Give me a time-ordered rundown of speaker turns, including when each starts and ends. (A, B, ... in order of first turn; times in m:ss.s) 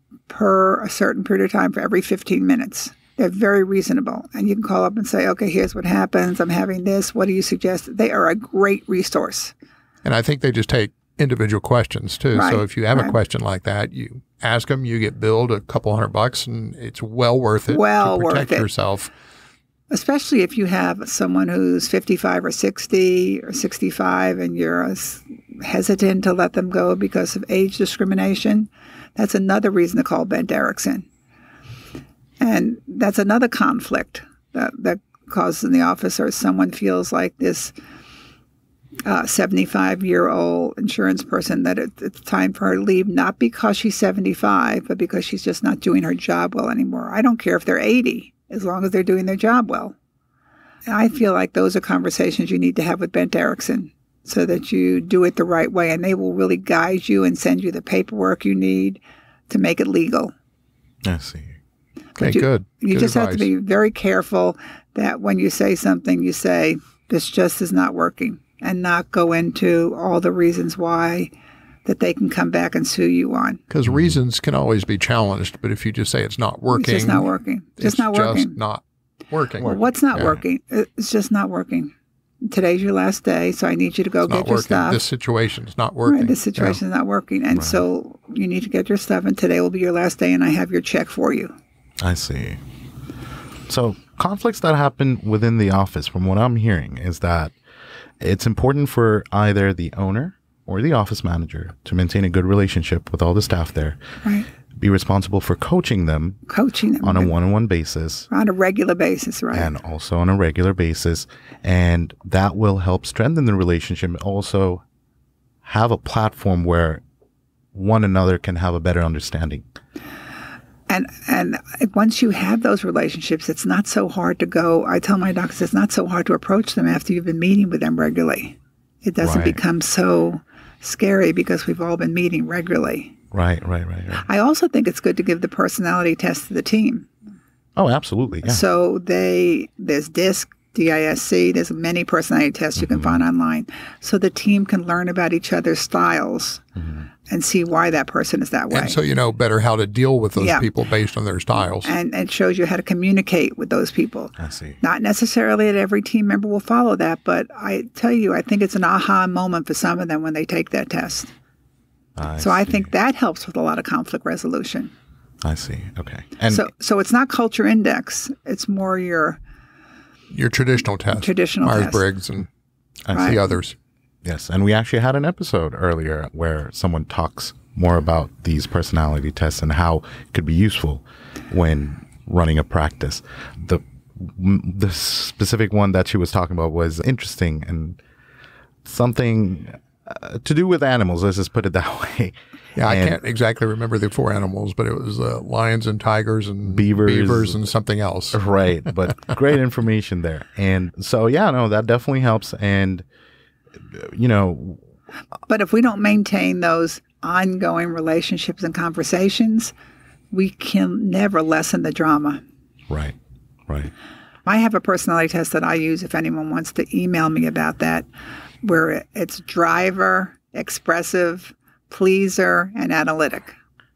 0:00.3-0:09.5 A
0:10.0-0:19.1 B
0:12.3-0:13.2 A
0:17.7-0:18.7 A
0:19.9-0:31.0 A
0:32.4-0:37.7 A
0:39.0-0:49.9 A
0:50.9-1:00.3 A
1:01.0-1:01.6 C
1:02.2-1:03.5 B
1:02.2-1:11.3 A
1:11.8-1:13.6 A
1:13.7-1:19.8 B
1:13.8-1:14.2 C
1:16.7-1:18.6 A
1:19.6-1:20.4 C
1:19.6-1:25.0 A
1:24.2-1:26.8 B
1:26.1-1:31.5 A
1:27.5-1:27.8 C
1:32.0-1:32.6 C
1:33.7-1:37.5 C
1:38.2-1:44.0 C
1:44.7-1:46.4 C
1:46.5-1:47.3 A
1:47.0-1:48.3 C
1:48.3-1:49.7 A
1:49.5-1:54.8 C
1:55.6-1:57.0 C
1:57.7-1:59.7 C
2:00.9-2:13.1 A
2:09.2-2:09.6 C
2:13.3-2:14.3 C
2:14.2-2:17.1 A
2:17.8-2:18.6 C
2:18.4-2:26.6 A
2:22.8-2:23.2 C
2:26.8-2:27.1 C
2:27.3-2:29.0 A
2:28.7-2:31.9 B
2:30.4-2:30.7 A
2:31.8-2:41.3 A
2:34.4-2:34.8 C
2:42.2-2:42.9 C
2:42.4-2:44.9 A
2:45.4-2:46.7 C
2:46.5-2:49.4 A
2:50.3-2:52.5 B
2:51.1-2:52.0 A
2:53.1-2:53.4 C
2:53.1-2:53.4 A
2:53.1-2:53.8 B
2:54.2-3:08.0 C
3:08.8-3:13.2 C
3:12.8-3:18.4 B
3:16.6-3:17.6 C
3:18.3-3:23.0 C
3:23.8-3:24.8 C
3:25.5-3:29.7 A
3:30.3-3:32.4 A
3:32.9-3:33.2 C
3:34.4-3:38.1 A
3:38.6-3:43.6 A